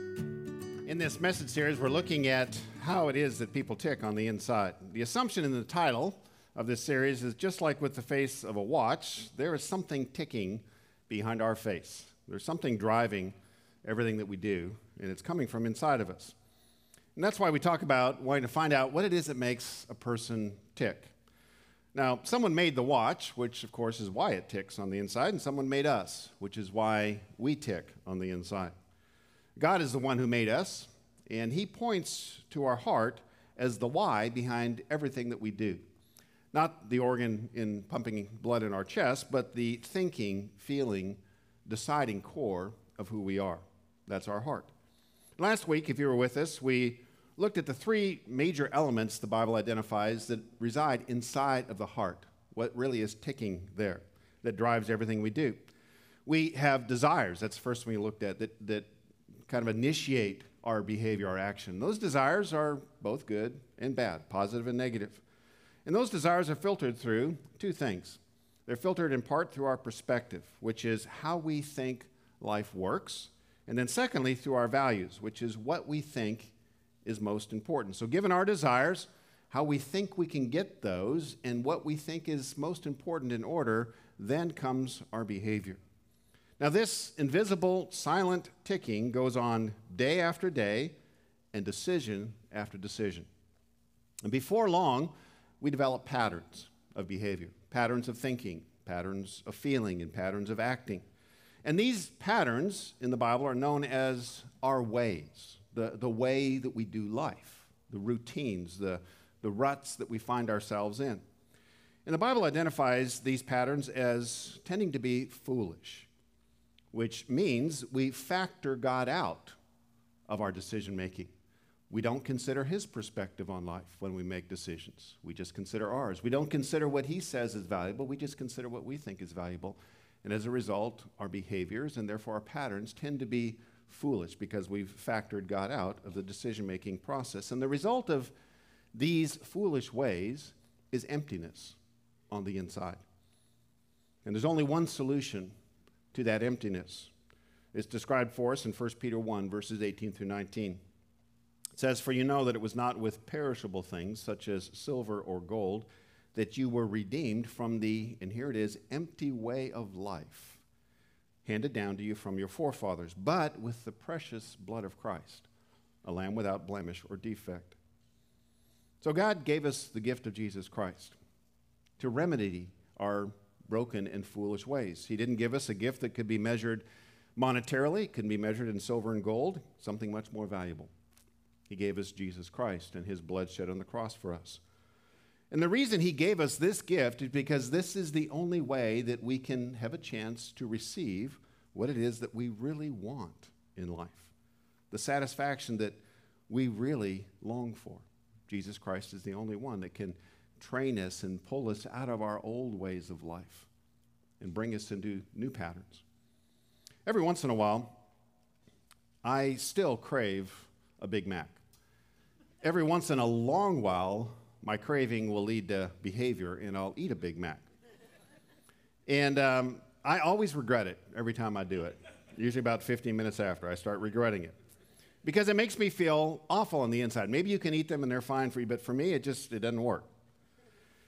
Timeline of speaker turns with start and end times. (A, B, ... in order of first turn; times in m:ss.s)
0:00.8-0:16.3 A
0:17.1-0:21.1 A
0:21.9-0:28.7 A
0:29.6-0:35.8 A
0:36.5-0:44.7 A
0:45.4-0:55.7 A
0:56.2-0:58.9 A
0:59.5-1:05.2 A
1:05.8-1:25.8 A
1:26.6-1:31.0 A
1:31.5-1:33.3 A
1:34.2-1:41.0 A
1:41.6-1:51.2 A
1:52.0-1:56.1 A
1:56.9-1:59.6 A
2:00.3-2:01.3 A
2:01.9-2:18.3 A
2:18.9-2:21.8 A
2:22.3-2:23.0 A
2:24.2-2:25.5 A
2:26.1-2:27.1 A
2:27.7-2:30.8 A
2:31.8-2:40.6 A
2:41.4-2:45.5 A
2:46.0-2:47.8 A
2:49.0-2:51.2 A
2:52.0-2:56.8 A
2:57.4-3:00.9 A
3:01.7-3:04.6 A
3:05.5-3:14.3 A
3:14.9-3:23.7 A
3:24.4-3:26.0 A
3:27.0-3:28.0 A
3:29.2-3:31.6 A
3:32.6-3:37.6 A
3:39.1-3:44.6 A
3:45.2-3:50.1 A